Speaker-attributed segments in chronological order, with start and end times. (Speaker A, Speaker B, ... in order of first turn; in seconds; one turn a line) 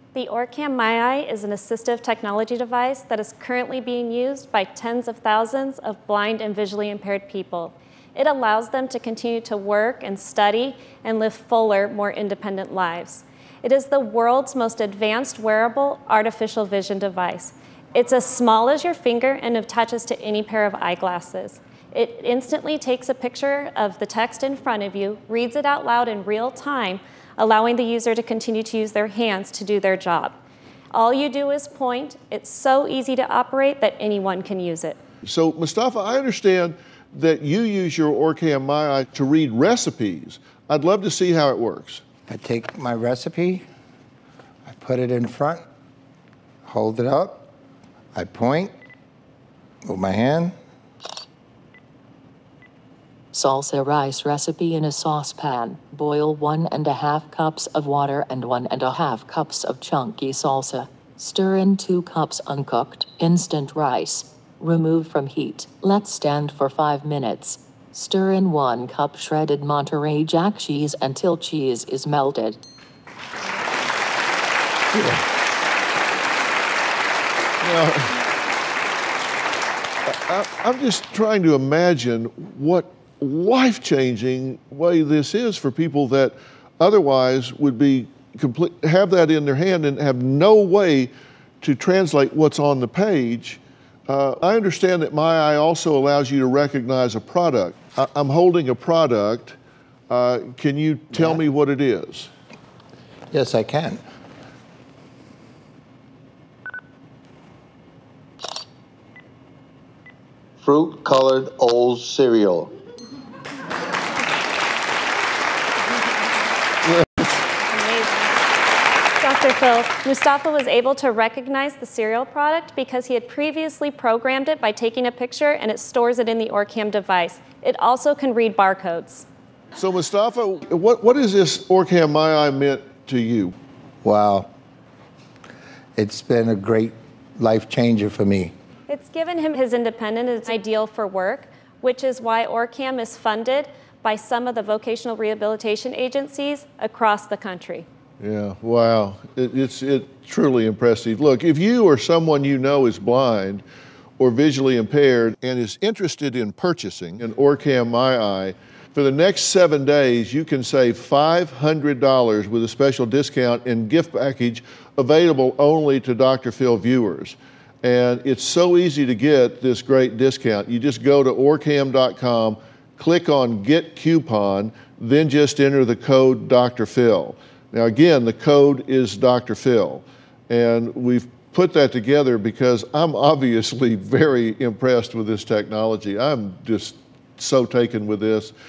Speaker A: 0.1-30.4
Speaker A: 30.9-35.0
Speaker B: 35.2-42.0
Speaker C: 42.3-43.6
Speaker C: 44.6-45.6
Speaker C: 46.6-47.5
Speaker C: 48.1-48.7
Speaker C: 49.8-50.5
Speaker D: 53.3-72.6
Speaker C: 74.9-75.2
Speaker B: 77.6-78.2
Speaker B: 80.1-99.6
Speaker B: 100.1-102.3
Speaker C: 103.3-104.0
Speaker C: 110.6-112.7
Speaker A: 117.6-118.4
Speaker A: 119.2-129.2
Speaker B: 129.8-133.5
Speaker C: 134.0-134.5
Speaker C: 135.9-138.5
Speaker A: 138.9-147.8
Speaker B: 148.2-153.6
Speaker B: 154.2-188.5